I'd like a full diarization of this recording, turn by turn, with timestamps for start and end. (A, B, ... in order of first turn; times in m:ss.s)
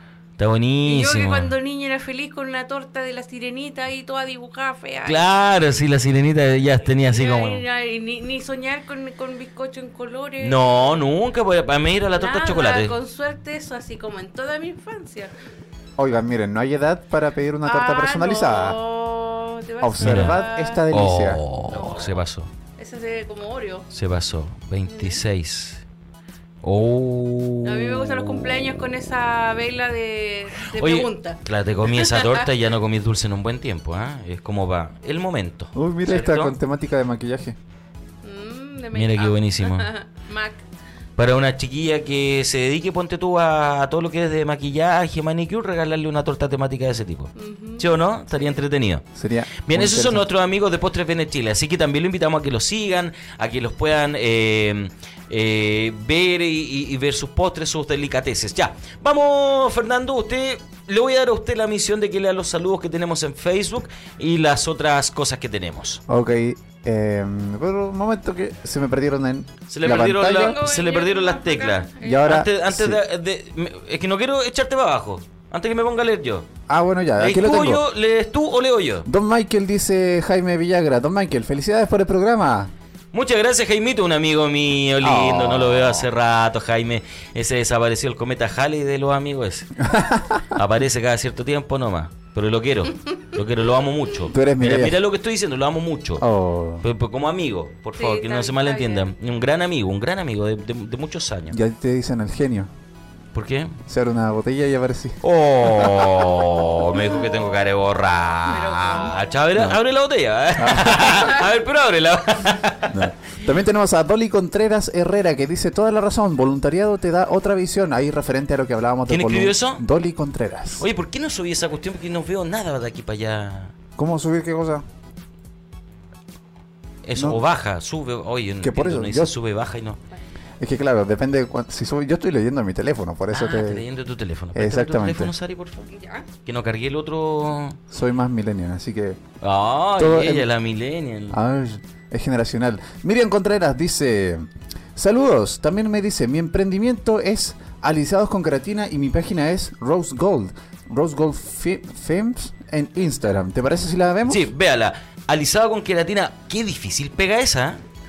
0:00.4-0:01.5 A
0:00.8-0:05.3 B
0:05.0-0:07.6 A
0:07.0-0:10.6 B
0:10.4-0:12.9 A
0:12.2-0:15.3 B
0:16.0-0:18.8 C
0:17.6-0:20.8 B
0:19.8-0:21.4 C
0:20.0-0:22.5 A
0:21.7-0:22.2 B
0:22.8-0:23.9 B
0:23.9-0:25.8 A
0:24.9-0:25.2 B
0:26.6-0:28.6 A
0:27.6-0:32.4 B
0:30.6-0:36.5 A
0:35.7-0:37.6 C
0:38.2-0:40.6 B
0:38.9-0:39.9 A
0:41.2-0:49.0 A
0:47.4-0:48.6 B
0:49.1-0:50.2 C
0:49.6-1:06.0 A
1:06.1-1:10.6 C
1:09.7-1:16.5 A
1:09.9-1:12.4 B
1:12.0-1:13.0 C
1:16.7-1:17.8 C
1:17.2-1:19.1 A
1:19.0-1:22.7 C
1:23.1-1:29.9 A
1:25.0-1:26.1 C
1:29.8-1:30.4 C
1:30.5-1:36.2 A
1:34.3-1:35.0 C
1:36.2-1:36.8 C
1:36.8-1:41.6 A
1:38.0-1:39.2 B
1:41.5-1:42.7 C
1:43.3-1:43.8 A
1:43.9-1:46.5 C
1:45.2-1:53.0 A
1:48.5-1:49.4 B
1:50.6-1:51.2 C
1:52.9-2:00.8 C
1:59.1-1:59.8 A
2:00.8-2:03.7 A
2:04.0-2:04.8 C
2:07.0-2:10.0 A
2:07.1-2:07.4 C
2:08.6-2:09.3 C
2:10.6-2:13.8 C
2:13.3-2:15.9 A
2:14.5-2:15.3 C
2:15.9-2:16.2 B
2:16.4-2:17.8 A
2:17.9-2:19.2 C
2:19.4-2:21.4 A
2:20.0-2:20.5 C
2:21.3-2:34.5 C
2:34.2-2:37.8 A